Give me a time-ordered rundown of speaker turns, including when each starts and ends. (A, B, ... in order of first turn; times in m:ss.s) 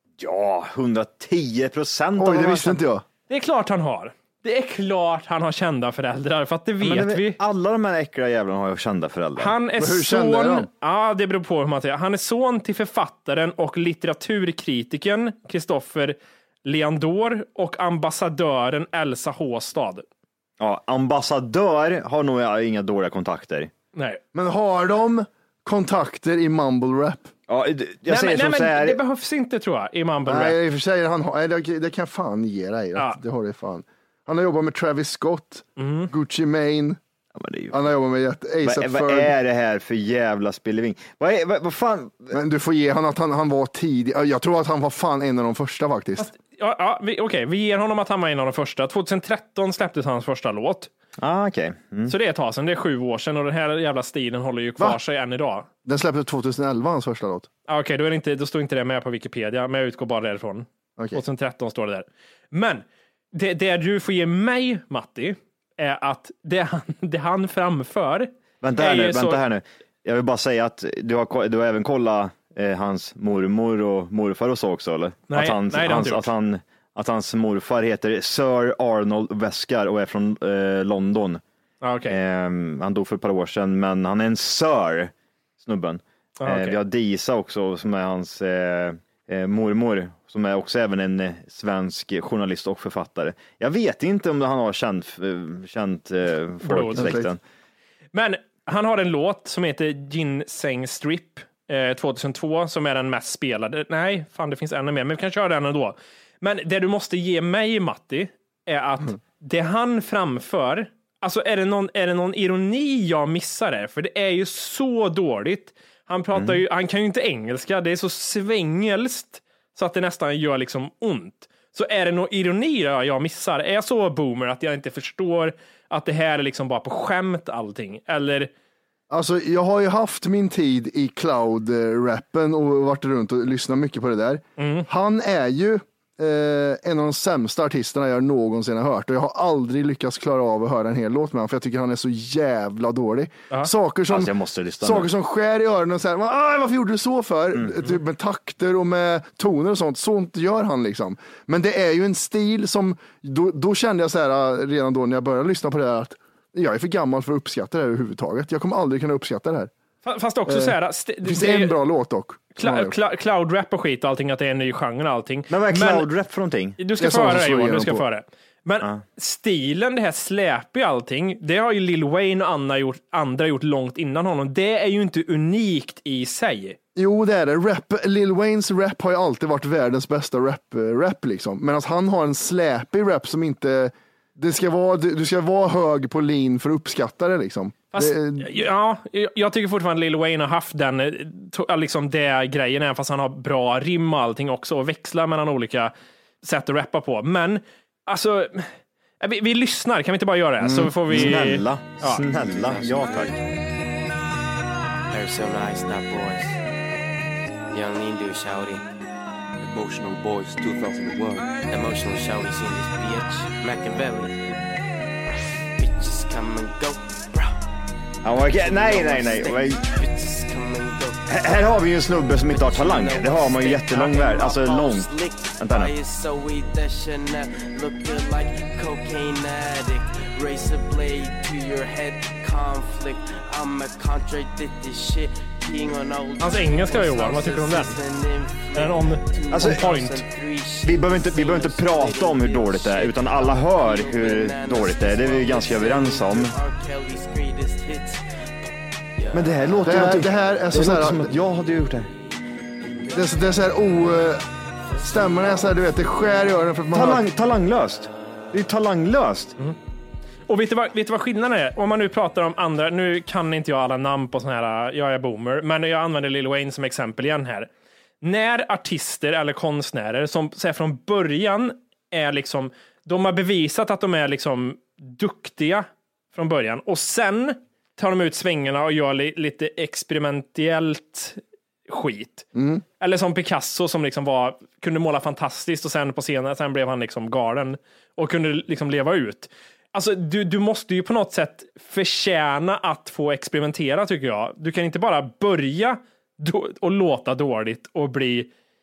0:00.2-0:02.8 A
0:02.2-0:03.0 B
0:03.3-0:07.4 C
0:06.8-0:09.5 A
0:09.4-0:20.0 C
0:09.8-0:10.7 B
0:20.6-0:23.7 A
0:23.9-0:24.2 C
0:24.3-0:27.3 B
0:27.5-0:29.0 A
0:28.1-0:30.6 C
0:30.2-0:37.0 B
0:35.8-0:36.1 C
0:37.4-0:37.8 A
0:37.7-0:39.3 B
0:38.6-0:42.3 A
0:42.3-0:46.3 B
0:46.2-0:50.9 C
0:51.2-0:52.1 A
0:52.1-0:55.7 C
0:55.8-0:57.5 B
0:57.7-1:09.4 C
1:01.0-1:01.2 B
1:08.6-1:21.4 A
1:15.3-1:16.3 C
1:21.8-1:22.2 C
1:22.1-1:37.4 A
1:26.4-1:26.8 C
1:36.6-1:37.1 C
1:36.9-1:37.3 B
1:38.1-2:08.5 C
1:56.3-1:56.6 A
2:09.1-2:39.7 B
2:14.6-2:14.9 C
2:24.1-2:25.1 A
2:40.0-2:41.7 C
2:40.4-2:43.0 B
2:42.5-2:46.1 C
2:45.5-2:46.8 A
2:46.8-2:56.8 C
2:47.0-2:48.0 B
2:57.0-3:08.6 B
3:07.9-3:22.2 C
3:20.6-3:21.2 B
3:21.1-3:23.4 A
3:22.4-3:23.4 D
3:25.1-3:26.6 D
3:27.7-3:28.8 D
3:29.6-3:34.4 D
3:35.8-3:37.6 D
3:38.2-3:39.9 A
3:38.3-3:41.6 D
3:41.3-3:45.9 A
3:42.4-4:09.9 D
3:56.4-3:58.0 C
3:58.7-4:00.1 C
3:59.5-4:00.2 A
4:00.8-4:06.5 A
4:09.3-4:12.1 A
4:09.8-4:11.3 B
4:13.0-4:13.5 D
4:13.1-4:14.4 B
4:15.0-4:17.2 B
4:16.9-4:19.5 A
4:20.5-4:27.7 C
4:28.2-4:42.5 C
4:42.5-4:42.8 B
4:43.0-4:58.5 C